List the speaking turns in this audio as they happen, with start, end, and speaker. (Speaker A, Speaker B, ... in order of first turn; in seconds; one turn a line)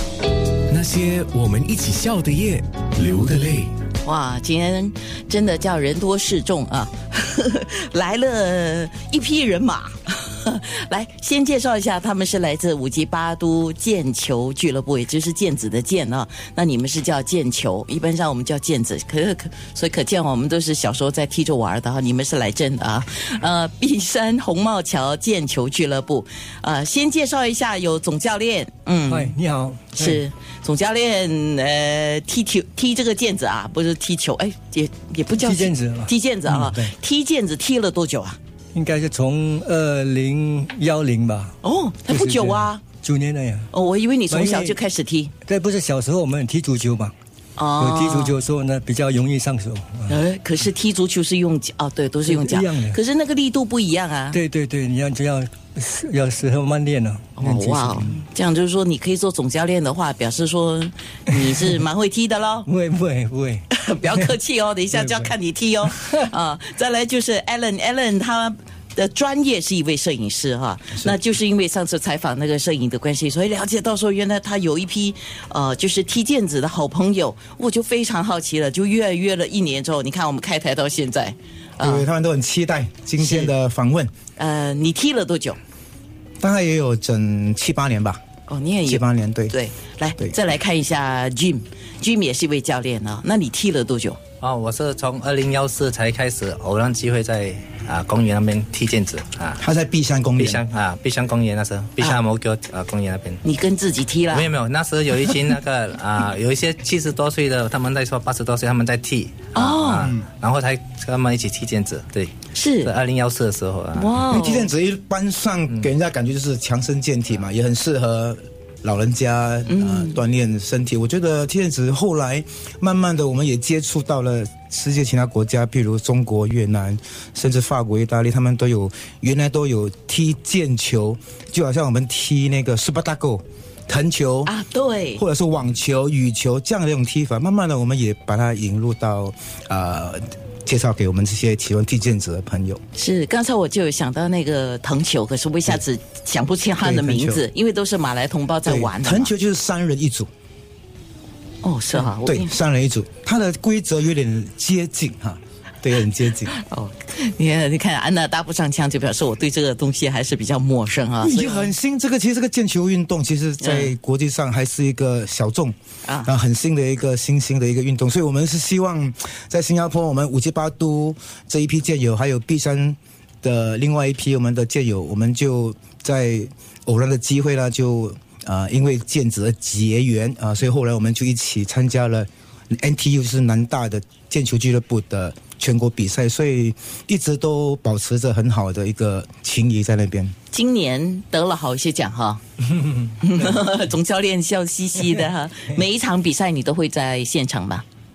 Speaker A: 0.7-3.7
Speaker B: 4.0-29.3
Speaker C: 29.1-30.2
Speaker B: 29.9-38.4
Speaker C: 35.3-36.9
Speaker C: 38.7-41.5
Speaker B: 41.6-42.8
Speaker C: 42.0-43.7
Speaker B: 43.7-45.3
Speaker C: 44.3-44.8
Speaker C: 45.4-47.1
Speaker B: 47.6-48.4
Speaker C: 47.8-50.2
Speaker B: 50.1-54.4
Speaker C: 52.2-53.0
Speaker C: 54.3-58.2
Speaker B: 57.4-62.7
Speaker C: 62.6-64.3
Speaker B: 63.7-82.1
Speaker C: 65.0-65.3
Speaker D: 81.8-84.1
Speaker B: 83.2-83.5
Speaker B: 84.4-85.6
Speaker D: 86.4-88.2
Speaker B: 88.5-94.2
Speaker D: 88.9-89.5
Speaker E: 94.4-99.6
Speaker D: 99.6-100.6
Speaker E: 100.4-103.4
Speaker B: 103.4-104.5
Speaker E: 104.3-114.2
Speaker B: 109.5-110.1
Speaker D: 110.0-110.3
Speaker B: 112.5-112.9
Speaker B: 113.9-114.7
Speaker D: 114.2-134.5
Speaker B: 119.7-120.2
Speaker B: 134.4-135.2
Speaker D: 135.2-142.8
Speaker B: 142.9-149.3
Speaker D: 146.8-147.4
Speaker D: 148.7-150.3
Speaker B: 151.6-152.5
Speaker D: 152.2-156.5
Speaker B: 156.5-161.7
Speaker D: 161.2-190.3
Speaker B: 163.6-163.9
Speaker B: 166.0-166.3
Speaker B: 190.5-192.4
Speaker B: 193.2-197.8